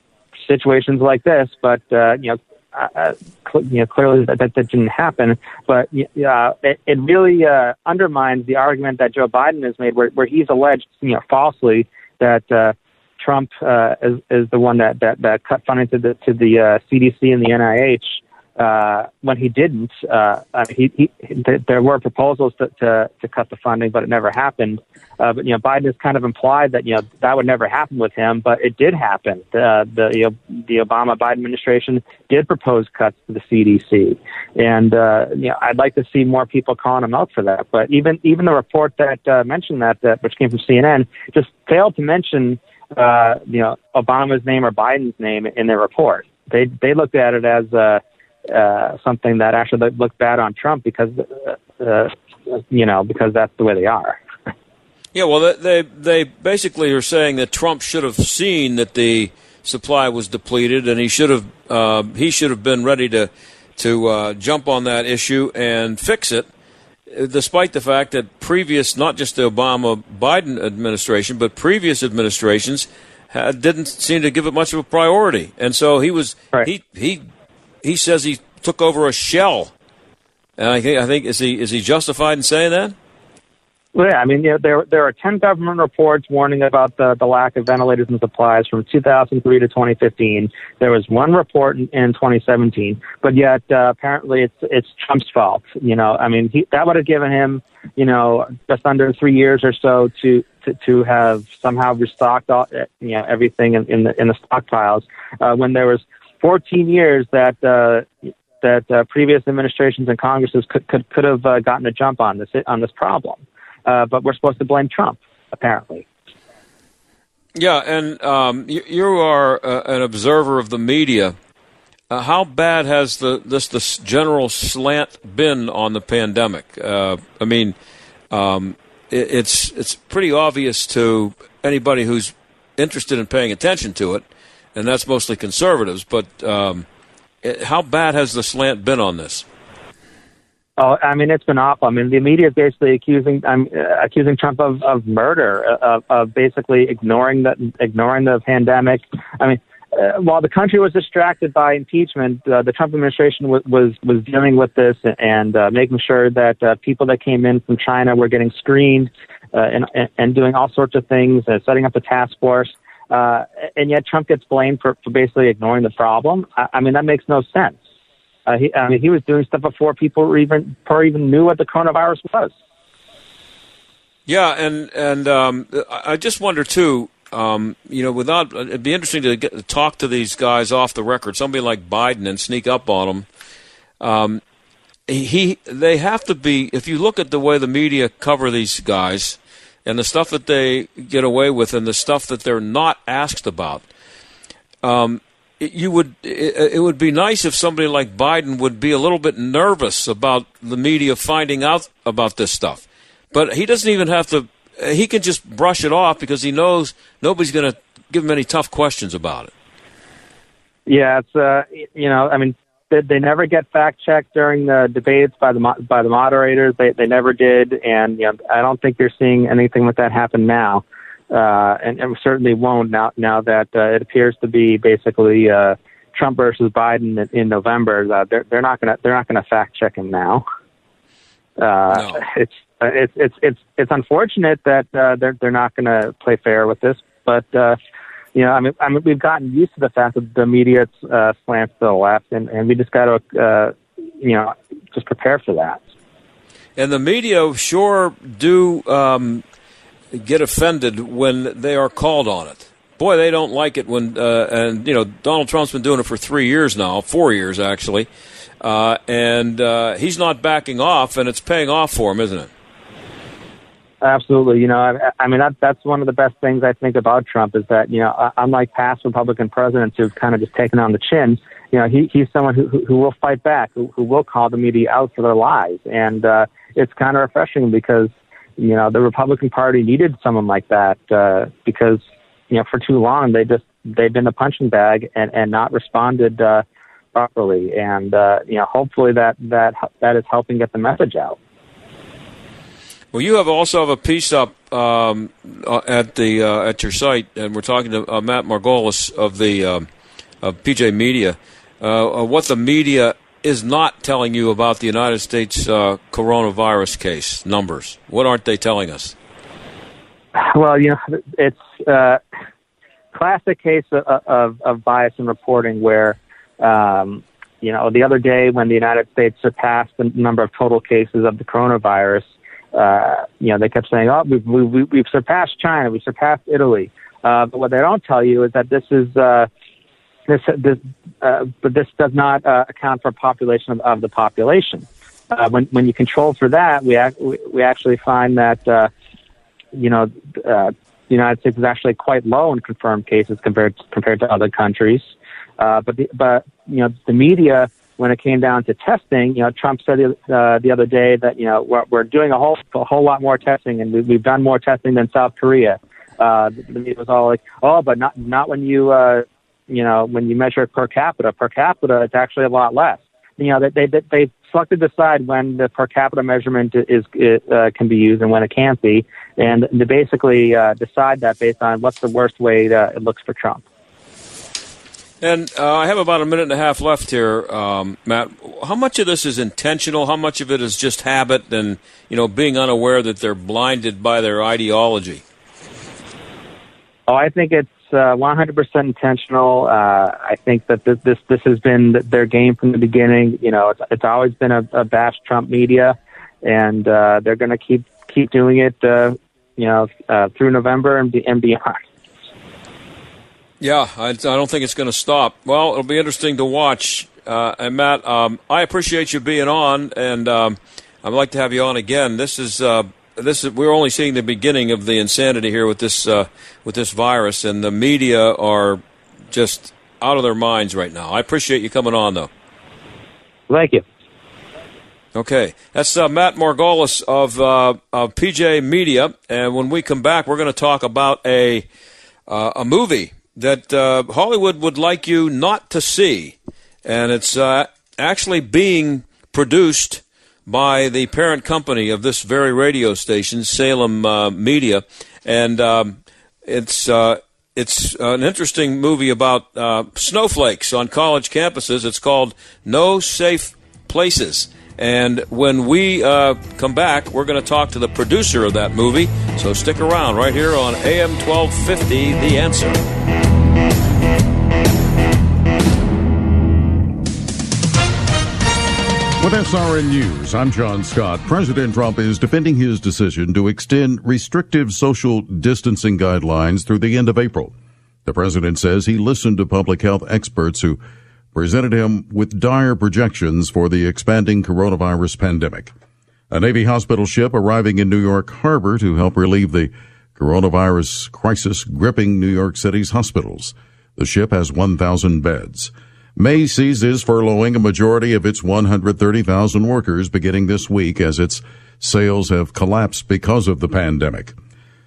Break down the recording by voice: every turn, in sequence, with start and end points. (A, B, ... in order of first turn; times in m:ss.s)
0:00.5-0:54.2 A
0:55.1-1:06.5 B
1:07.1-1:17.2 B
1:17.8-1:19.7 B
1:20.6-1:23.0 B
1:24.0-1:56.0 A
1:57.6-2:01.4 B
2:02.1-2:07.8 B
2:08.3-2:16.8 B
2:17.4-2:19.4 B
2:20.8-2:47.8 A
2:48.5-2:52.5 A
2:54.3-3:03.3 B
3:04.0-3:04.4 B
3:05.1-3:13.9 B
3:14.8-3:29.5 B
3:30.9-3:50.4 A
3:51.6-3:57.8 A
3:51.9-3:52.2 B
3:58.4-4:05.8 A
4:06.8-4:09.4 B
4:10.1-4:18.1 B
4:18.6-4:22.5 B
4:24.0-4:46.6 A
4:47.2-4:51.4 A
4:53.1-4:59.9 B
5:00.4-5:09.1 B
5:10.4-5:12.2 A
5:13.1-5:29.5 A
5:30.3-5:38.9 A
5:39.7-6:13.6 A
6:15.2-6:25.2 B
6:27.1-6:41.8 A
6:43.6-7:02.3 B
7:03.5-7:03.8 A
7:05.2-7:11.7 B
7:12.3-7:42.8 B
7:49.2-7:57.5 C
7:58.1-8:00.8 C
8:01.3-8:05.7 C
8:06.3-8:24.4 C